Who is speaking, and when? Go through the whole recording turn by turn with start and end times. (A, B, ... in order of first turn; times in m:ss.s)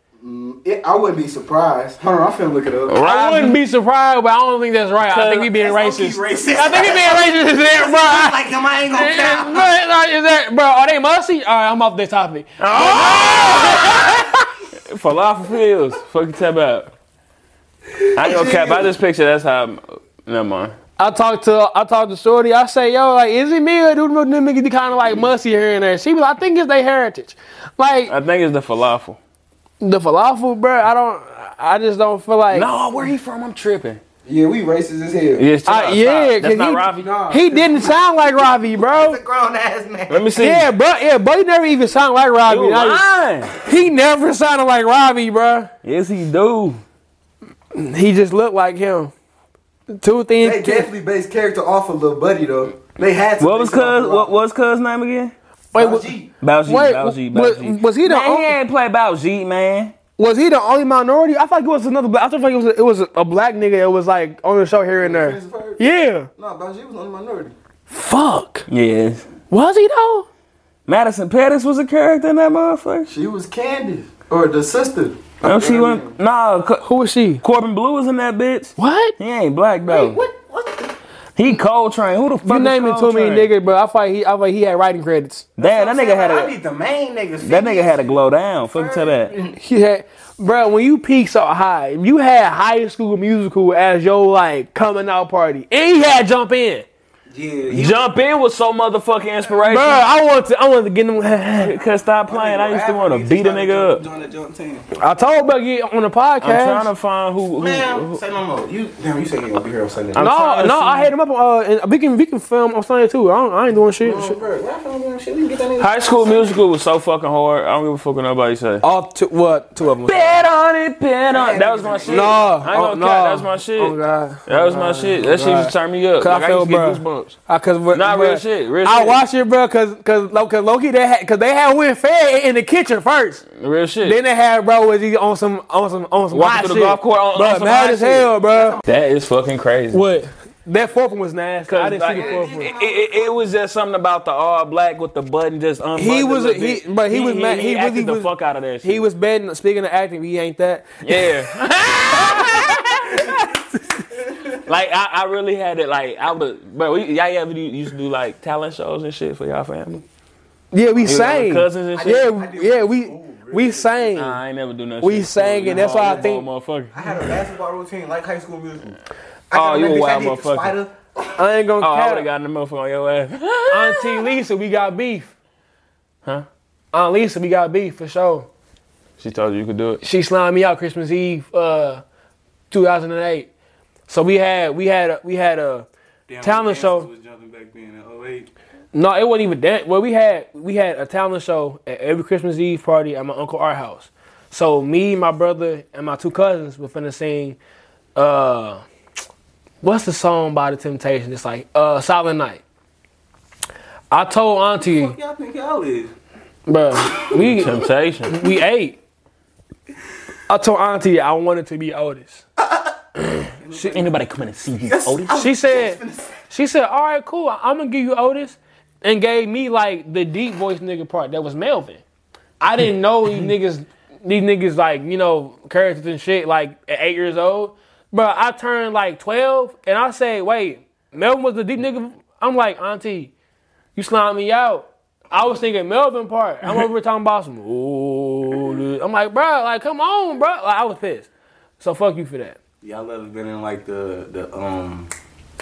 0:00.2-0:03.0 A
0:02.9-0:03.6 B
0:03.0-0:14.4 C
0:05.1-0:05.5 B
0:05.5-0:09.7 A
0:12.6-0:14.2 B
0:13.0-0:13.9 A
0:14.9-0:16.9 B
0:18.1-0:20.7 B
0:18.2-0:18.9 A
0:21.0-0:28.1 C
0:28.1-0:29.2 B
0:29.8-0:32.7 C
0:32.5-0:34.0 B
0:34.2-0:35.4 A
0:35.4-0:37.1 B
0:35.6-0:39.2 C
0:37.0-0:38.0 A
0:38.8-0:40.2 A
0:40.1-0:40.7 B
0:40.4-0:43.0 C
0:42.5-0:43.6 B
0:43.6-0:45.7 C
0:45.8-0:46.8 B
0:47.7-0:49.1 C
0:50.0-0:50.9 C
0:50.4-0:54.4 A
0:53.4-0:55.3 B
0:55.7-0:56.1 C
0:55.7-0:56.3 A
0:56.4-0:59.9 B
0:56.6-0:58.6 C
1:00.2-1:06.3 C
1:05.0-1:05.8 A
1:06.4-1:07.6 A
1:07.9-1:08.7 C
1:08.7-1:09.3 B
1:09.5-1:10.3 C
1:10.9-1:13.1 B
1:13.1-1:16.2 A
1:15.4-1:16.9 B
1:16.8-1:17.4 C
1:17.4-1:20.2 B
1:18.8-1:19.1 C
1:19.8-1:20.9 A
1:21.4-1:23.5 B
1:22.4-1:25.5 C
1:25.6-1:26.5 B
1:25.6-1:29.6 A
1:27.4-1:29.3 B
1:29.6-1:36.9 C
1:37.3-1:38.1 A
1:37.7-1:40.0 B
1:39.6-1:41.7 C
1:41.6-1:44.0 B
1:42.3-1:44.9 A
1:45.0-1:46.9 C
1:46.4-1:48.2 B
1:47.6-1:50.3 A
1:50.1-1:51.1 B
1:50.2-1:54.4 C
1:54.0-1:56.6 A
1:55.8-1:58.8 B
1:58.8-2:00.4 C
2:00.0-2:04.0 B
2:01.3-2:02.5 A
2:02.1-2:13.5 C
2:04.5-2:07.4 B
2:07.9-2:09.2 B
2:13.5-2:14.2 B
2:14.0-2:18.8 C
2:16.3-2:18.3 B
2:18.5-2:18.8 A
2:18.8-2:20.0 B
2:19.9-2:22.7 C
2:21.7-2:29.0 B
2:22.1-2:23.4 A
2:26.0-2:28.3 C
2:28.8-2:31.3 C
2:31.0-2:33.4 B
2:32.1-2:34.0 C
2:34.1-2:34.6 A
2:34.6-2:40.0 B
2:40.7-2:44.4 C
2:41.0-2:42.2 B
2:41.9-2:44.2 A
2:44.2-2:47.1 B
2:45.0-2:46.5 C
2:45.6-2:46.3 A
2:46.9-2:49.0 A
2:49.5-2:50.9 A
2:49.5-2:50.7 B
2:51.4-2:52.3 C
2:51.8-2:54.3 B
2:53.7-2:55.3 C
2:56.9-2:58.5 C
2:59.2-3:00.0 B
3:00.0-3:02.0 C
3:02.7-3:03.5 C
3:04.1-3:05.9 C
3:06.3-3:08.5 A
3:06.4-3:07.1 C
3:08.9-3:17.6 C
3:18.2-3:18.8 C
3:19.8-3:22.6 C
3:24.1-3:25.1 C
3:24.8-3:26.1 A
3:26.7-3:29.0 C
3:27.2-3:28.5 B
3:30.5-3:32.4 C
3:32.6-3:32.9 A
3:33.6-3:34.1 A
3:33.7-3:35.3 B
3:34.8-3:36.4 A
3:35.3-3:42.0 C
3:42.6-3:53.3 C
3:54.0-4:01.3 C
4:01.8-4:02.6 C
4:02.8-4:05.1 A